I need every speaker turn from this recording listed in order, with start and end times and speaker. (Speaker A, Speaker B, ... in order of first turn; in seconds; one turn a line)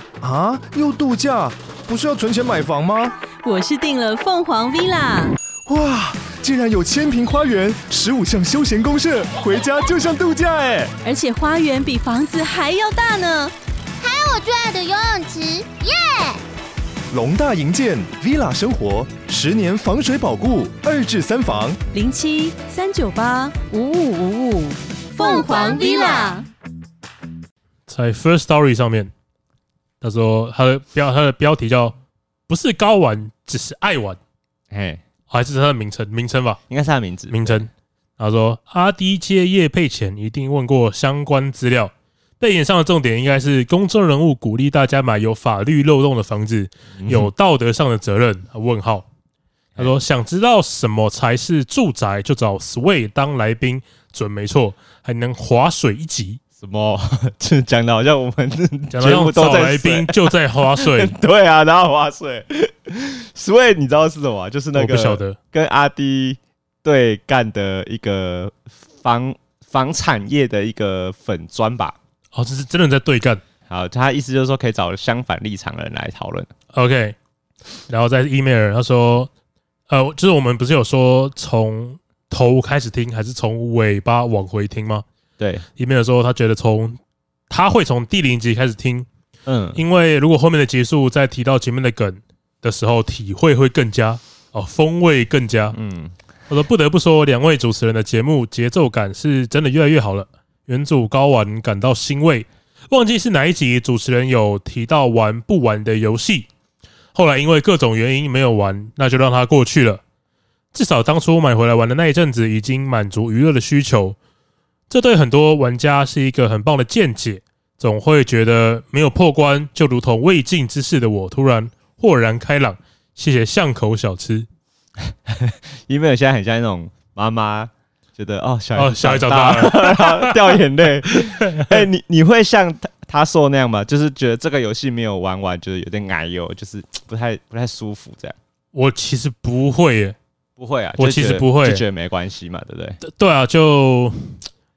Speaker A: 0.2-3.1
Speaker B: 3.4-5.3
Speaker A: 5.7-10.9
Speaker B: 11.0-13.5
Speaker C: 14.0-16.4
Speaker A: 17.1-21.8
Speaker B: 21.9-26.4
Speaker C: 25.2-26.4
Speaker D: 27.9-29.1
Speaker D: 30.0-31.9
Speaker D: 32.5-34.2
Speaker E: 34.7-35.0
Speaker D: 35.3-36.6
Speaker E: 36.7-37.7
Speaker D: 37.3-49.0
Speaker E: 47.0-47.3
Speaker D: 49.8-56.4
Speaker E: 56.6-72.0
Speaker D: 58.9-61.1
Speaker D: 64.7-65.4
Speaker D: 72.3-73.4
Speaker E: 73.7-76.5
Speaker D: 76.7-77.2
Speaker D: 77.9-79.3
Speaker D: 79.9-85.0
Speaker E: 85.4-85.6
Speaker D: 85.8-87.0
Speaker D: 87.5-89.1
Speaker E: 89.5-89.8
Speaker D: 89.7-95.8
Speaker E: 95.7-96.1
Speaker D: 96.5-106.5
Speaker D: 107.1-110.0
Speaker D: 110.7-114.2
Speaker D: 114.9-124.5
Speaker E: 125.2-138.3
Speaker D: 128.8-131.8
Speaker D: 138.7-140.2
Speaker E: 140.6-143.0
Speaker D: 141.0-141.8
Speaker D: 143.0-144.4